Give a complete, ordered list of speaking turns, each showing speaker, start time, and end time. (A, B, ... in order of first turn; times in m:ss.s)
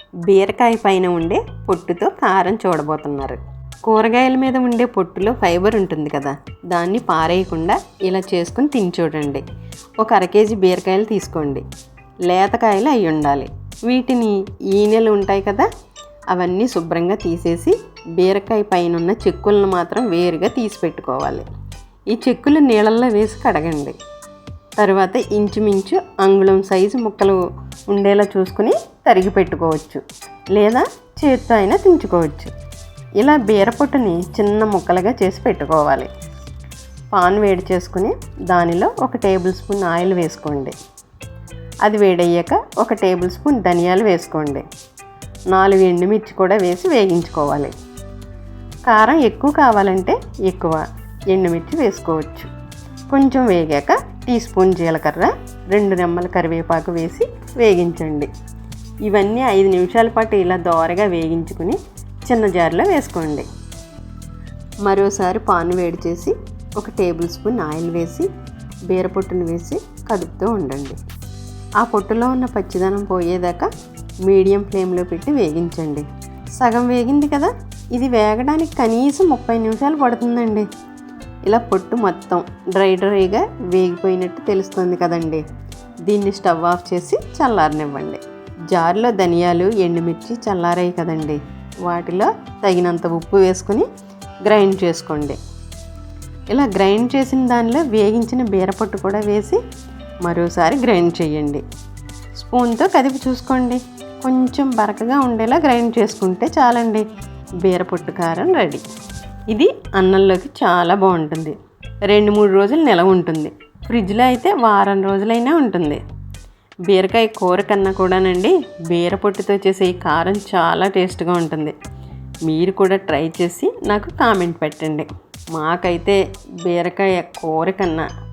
0:00.2-0:09.4 A
0:10.0-0:11.6 A
0:12.3-0:15.7 A
0:16.3-0:21.5 A
0:22.1-0:24.0 A
0:24.8-0:32.5 A
0:33.2-0:36.1 A
0:37.1-0:40.8 A
0:41.8-0:44.6 A
0:45.5-0:47.7 A
0:48.9-0:52.5 A
0:53.1-0:58.3 A
0:59.0-1:03.5 A
1:04.8-1:08.3 A
1:08.9-1:11.0 A
1:11.8-1:13.7 A
1:14.2-1:20.7 A
1:21.5-1:25.4 A
1:26.0-1:33.9 A
1:34.4-1:35.4 A
1:36.5-1:39.6 A
1:40.2-1:41.6 A
1:42.4-1:47.0 A
1:47.6-1:48.8 A
1:49.5-1:56.0 A
1:56.9-2:01.8 A
2:02.4-2:08.1 A